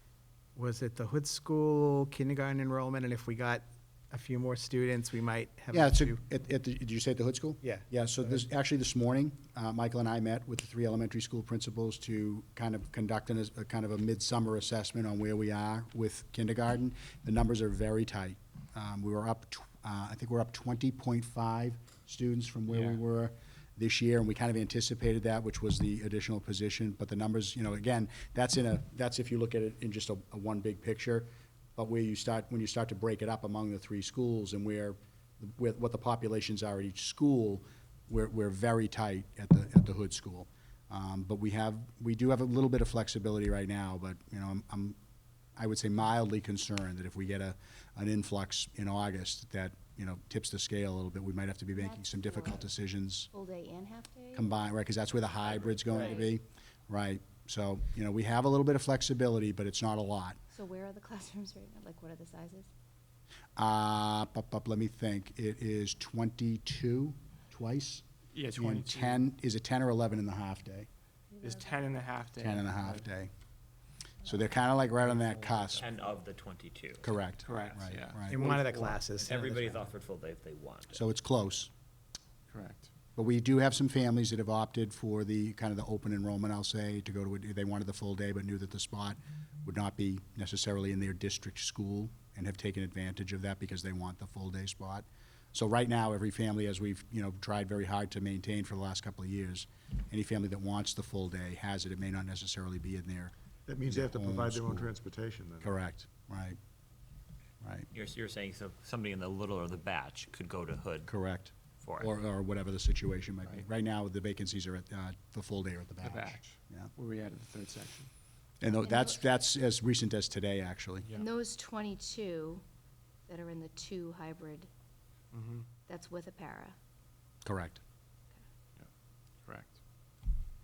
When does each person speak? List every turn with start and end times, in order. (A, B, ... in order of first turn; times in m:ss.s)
0:00.5-0:06.2 A
0:05.7-0:45.0 B
0:22.7-0:23.0 C
0:45.6-0:53.3 B
0:51.7-0:52.7 D
0:53.3-0:54.6 D
0:54.3-1:00.4 B
0:55.8-0:56.3 D
1:00.5-1:02.7 D
1:03.6-1:10.9 B
1:08.3-1:09.2 C
1:11.4-1:11.8 D
1:11.4-1:13.0 C
1:12.4-1:13.3 B
1:14.2-1:15.8 B
1:15.0-1:15.9 C
1:15.8-1:17.1 E
1:17.0-1:18.4 B
1:17.4-1:19.0 C
1:18.3-1:19.8 A
1:19.2-1:21.0 E
1:20.9-1:21.7 B
1:22.5-1:22.9 C
1:23.2-1:43.3 B
1:43.6-1:45.8 F
1:43.9-1:44.9 B
1:45.6-1:46.6 B
1:47.6-1:47.9 B
1:47.9-1:51.1 E
1:51.1-1:56.9 B
1:51.8-1:52.1 E
1:56.0-1:58.1 C
1:58.6-2:01.1 B
1:58.8-1:59.3 D
2:01.1-2:02.6 D
2:03.3-2:04.7 D
2:05.3-2:05.6 C
2:05.9-2:06.8 D
2:07.4-2:07.8 B
2:09.4-2:09.8 C